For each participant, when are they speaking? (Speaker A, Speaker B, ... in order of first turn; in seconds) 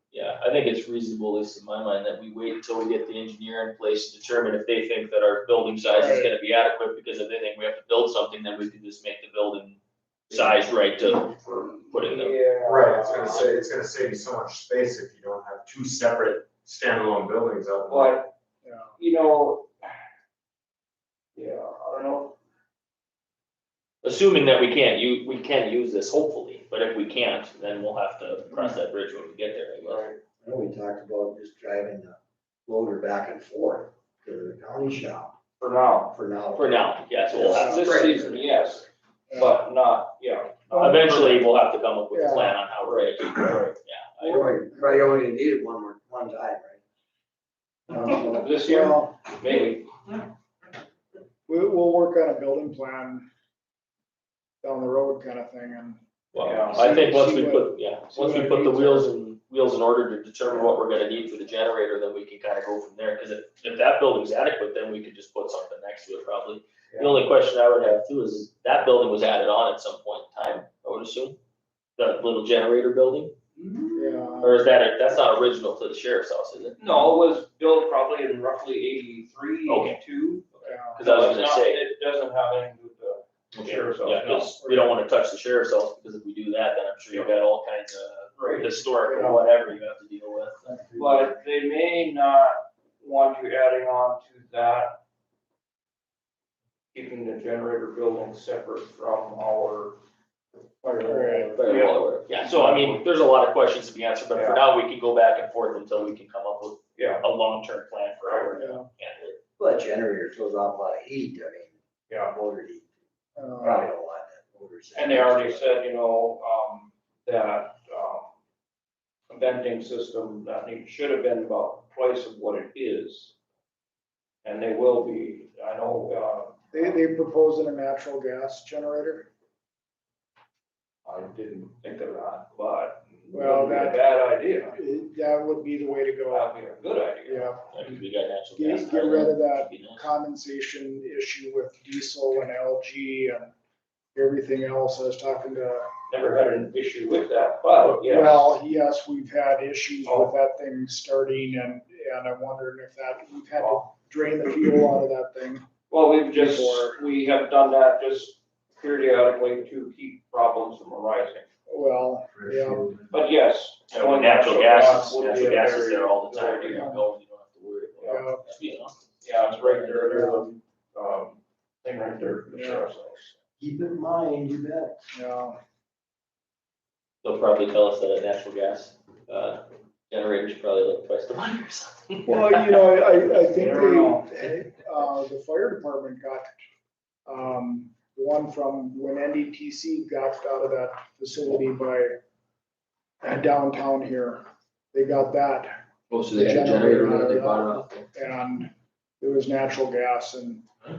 Speaker A: 0.1-12.4, 24.0-30.0, 36.6-38.4, 40.7-44.5, 56.3-71.4, 72.0-73.3, 74.4-76.8, 79.7-80.0, 81.0-81.8, 83.5-90.8, 101.1-109.4, 137.7-140.0, 163.9-170.3, 177.2-182.8, 196.1-198.1
Speaker B: 5.9-6.3, 18.6-19.0, 37.5-37.9, 39.3-39.6, 40.7-41.5, 42.1-42.6, 47.9-49.1, 51.5-53.3, 54.6-59.1, 73.9-74.6, 80.6-81.1, 84.2-85.0, 88.5-89.5, 90.7-91.2, 101.0-101.6, 108.6-108.9, 113.4-113.9, 126.7-129.3, 133.3-134.1, 134.7-136.5, 137.2-137.8, 138.6-143.5, 144.2-145.9, 147.9-155.7, 156.3-157.0, 161.7-163.0, 166.7-167.0, 168.0-168.5, 170.0-170.4, 172.5-172.9, 175.1-175.6, 182.2-186.5, 187.3-192.2, 193.2-195.7, 196.3-198.7, 199.2-200.7
Speaker C: 10.3-13.7, 17.9-18.3, 19.0-20.0, 21.4-22.4, 29.9-30.2, 35.6-36.1, 37.3-41.3, 42.9-44.5, 48.0-50.2, 56.4-56.9, 76.8-84.5, 88.4-88.7, 91.0-95.0, 96.9-100.0, 100.8-103.0, 104.3-104.6, 107.0-107.2, 108.2-108.6, 113.6-113.9, 115.0-118.3, 119.3-123.3, 124.4-127.0, 131.1-134.8, 136.3-137.6, 146.1-148.4, 150.0-150.3, 153.5-153.9, 155.9-161.5, 163.1-167.0, 168.0-168.2, 169.2-173.4, 183.2-184.4
Speaker D: 12.6-18.2, 44.3-44.9, 45.6-46.7, 162.3-163.0, 174.2-175.0
Speaker E: 30.4-32.1, 32.7-35.4, 36.1-36.8, 44.3-46.7, 109.6-111.7, 112.3-112.8, 113.8-115.6, 173.6-174.9